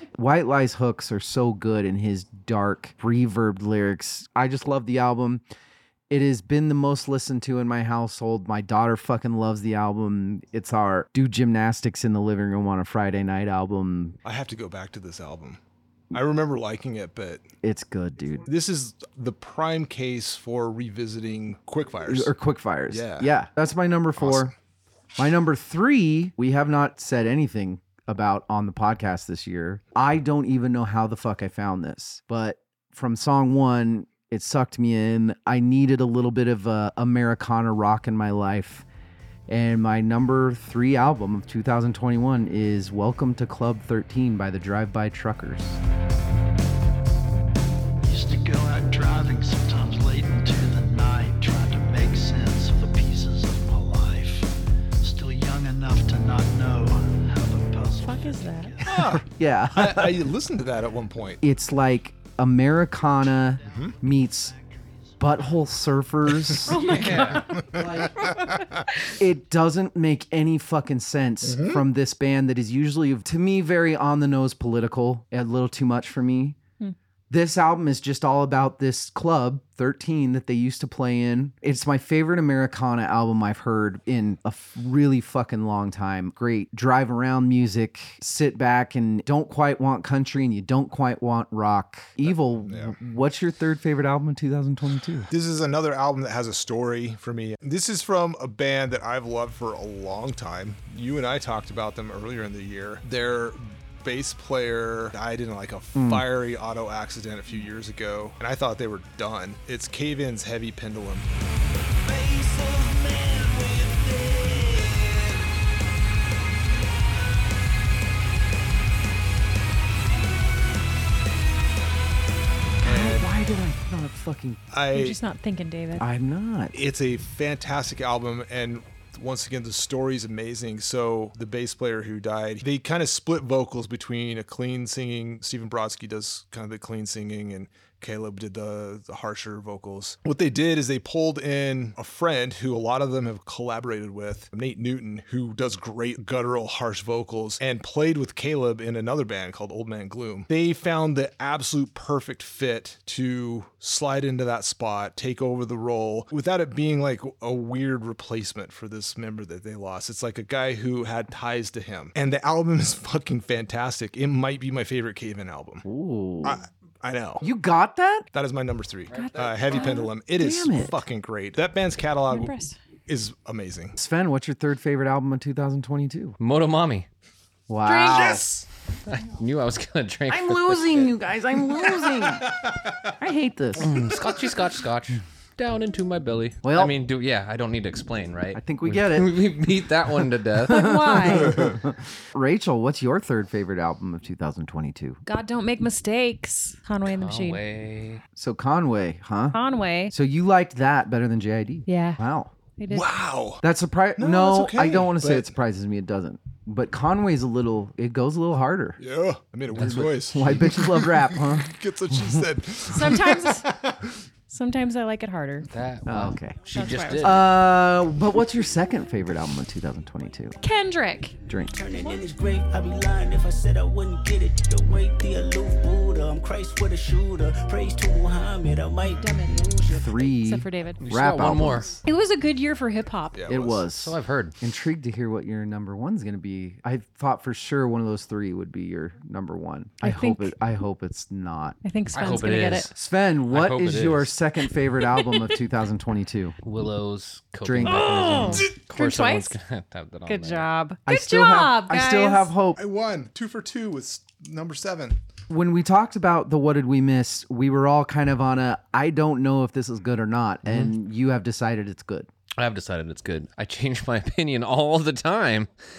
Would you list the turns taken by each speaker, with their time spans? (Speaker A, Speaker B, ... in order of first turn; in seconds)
Speaker A: 0.1-5.4, 6.1-14.2, 17.6-18.5, 22.1-24.5, 25.2-38.9, 39.5-45.8, 58.9-60.3, 61.4-64.5, 65.2-67.0, 67.7-68.4, 69.1-76.6, 77.3-95.3, 106.0-106.3, 122.8-124.6, 126.0-126.7, 165.8-166.6, 167.4-168.3, 170.3-171.0, 173.9-176.4, 177.7-178.4, 180.3-182.6, 183.2-183.9, 186.6-186.9, 188.5-189.5, 190.7-195.2, 198.4-199.6, 200.1-202.5, 203.6-209.0, 209.8-212.5, 216.1-216.6, 217.2-220.6, 221.5-221.8, 229.9-231.9, 233.5-241.8, 242.9-246.6, 247.6-248.7, 251.1-252.8, 255.5-262.3
Speaker B: 14.2-15.6, 16.1-17.4, 18.4-22.3, 22.9-23.3, 24.2-24.5, 58.8-61.4, 63.7-64.0, 67.1-68.5, 71.4-71.8, 92.3-93.0, 95.3-111.3, 122.8-123.3, 124.7-125.2, 126.7-165.8, 166.4-167.4, 168.3-172.5, 173.1-173.9, 178.0-178.7, 182.0-183.0, 202.9-203.6, 204.2-205.5, 209.0-214.1, 233.3-233.8, 252.7-255.2
Speaker C: 48.0-58.9, 111.9-115.5
Speaker D: 58.0-58.8, 66.6-68.6, 124.9-126.0, 169.1-170.1, 172.3-172.8, 177.8-178.4, 190.7-191.7, 195.3-197.6, 199.5-200.1, 201.9-202.2, 202.8-203.1, 212.9-213.7, 214.5-215.7, 216.7-217.4, 220.6-221.4, 229.0-231.0, 232.1-233.4, 240.0-240.5, 241.8-242.9, 247.8-249.6, 250.3-252.5
Speaker E: 66.8-67.5, 169.1-169.6, 176.4-177.1, 179.1-181.1, 183.8-190.9, 197.1-198.2, 209.7-210.1, 215.7-217.4, 231.0-232.0, 233.9-234.6, 242.1-242.9, 243.5-244.3, 246.6-250.7, 260.7-260.9, 262.6-265.7
Speaker F: 221.7-229.8